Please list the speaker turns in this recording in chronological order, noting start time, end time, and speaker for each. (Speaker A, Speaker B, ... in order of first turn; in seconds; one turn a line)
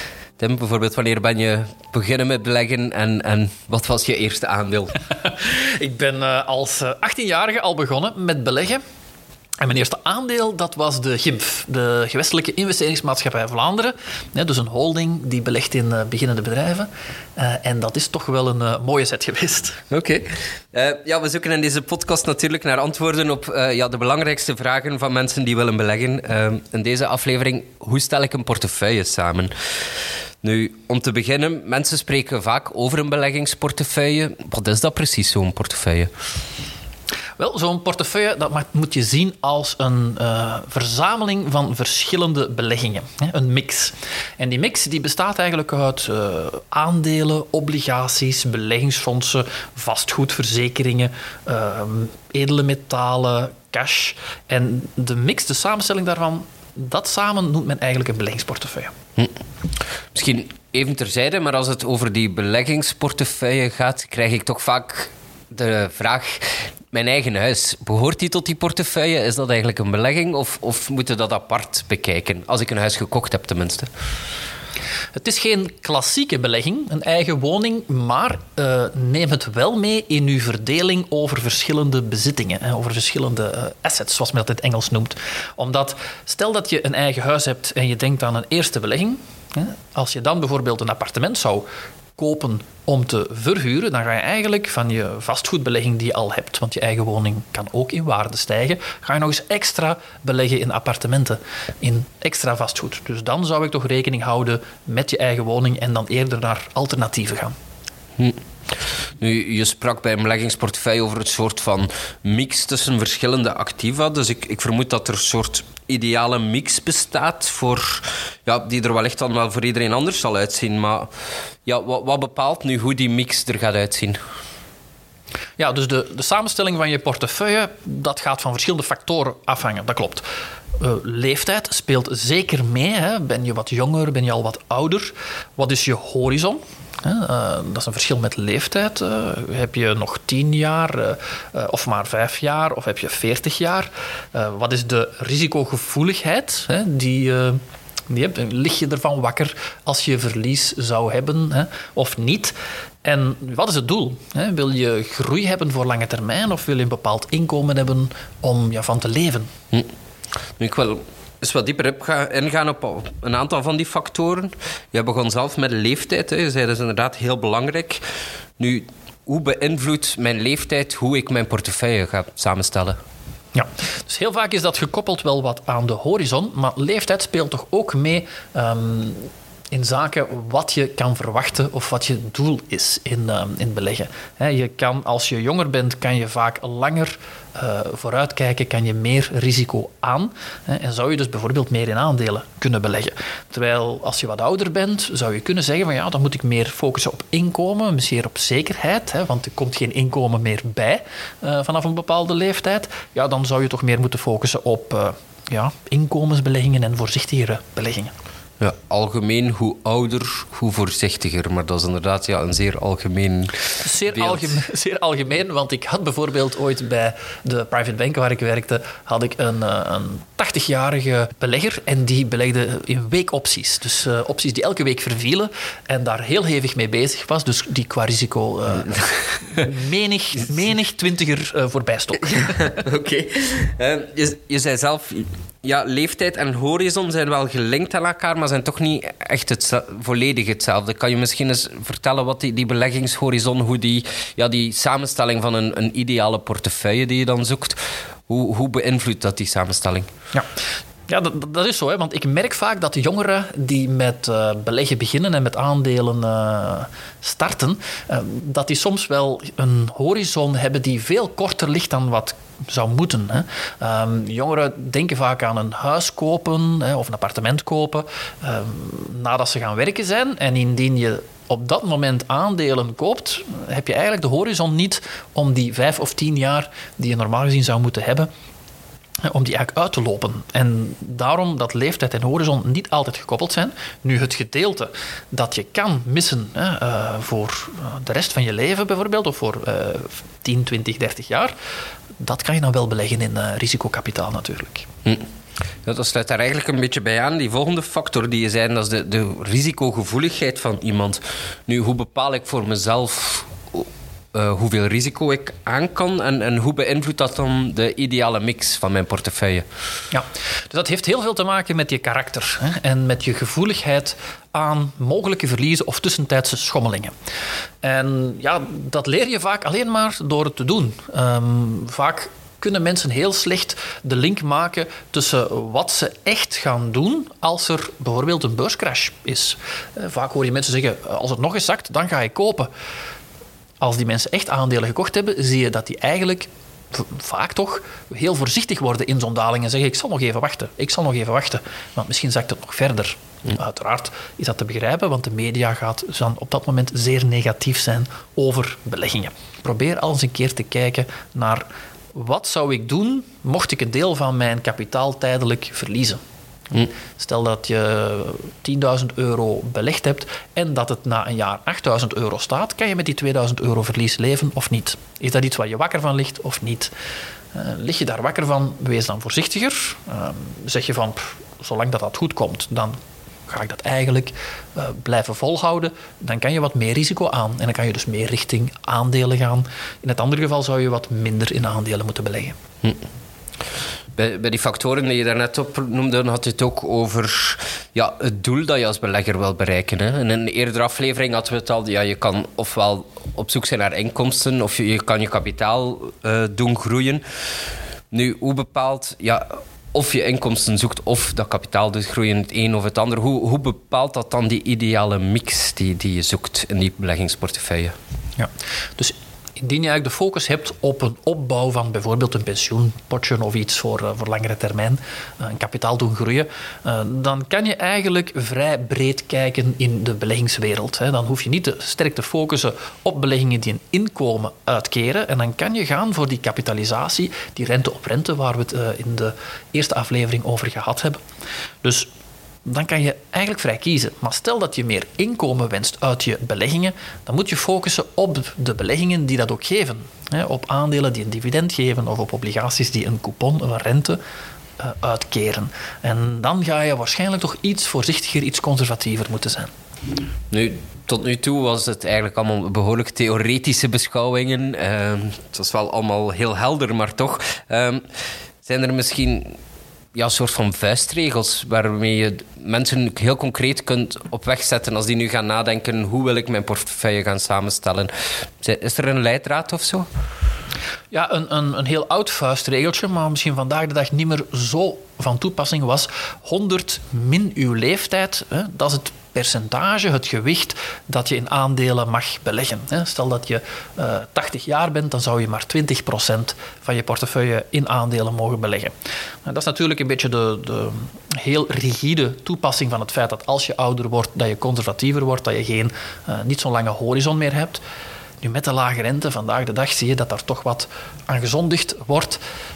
Speaker A: 0.4-5.0
Speaker B: 5.2-8.8
Speaker B: 9.6-19.8
Speaker A: 19.9-29.5
Speaker A: 30.4-36.1
Speaker B: 37.4-58.9
Speaker A: 60.1-73.9
Speaker B: 75.1-91.7
Speaker B: 92.2-107.5
Speaker A: 109.2-121.1
Speaker A: 121.7-124.2
Speaker B: 125.6-130.2
Speaker B: 130.8-159.5
Speaker A: 160.6-168.0
Speaker A: 168.6-173.0
Speaker B: 173.5-208.1
Speaker A: 208.6-214.6
Speaker B: 213.8-232.8
Speaker A: 232.7-247.8
Speaker A: 248.3-250.1
Speaker B: 251.1-278.3
Speaker B: 279.2-291.5
Speaker B: 292.2-294.9
Speaker A: 295.8-309.6
Speaker B: 310.1-317.1
Speaker B: 317.8-332.7
Speaker B: 333.8-356.2
Speaker B: 356.7-366.9
Speaker B: 367.5-382.6
Speaker A: 384.1-397.2
Speaker A: 398.1-407.9
Speaker B: 408.4-431.2
Speaker B: 431.8-432.1
Speaker B: 432.6-444.2
Speaker B: 444.8-449.7
Speaker A: 450.5-458.0
Speaker A: 458.6-459.6
Speaker A: 460.1-470.1
Speaker B: 471.1-488.9
Speaker B: 489.4-497.8
Speaker B: 498.4-502.4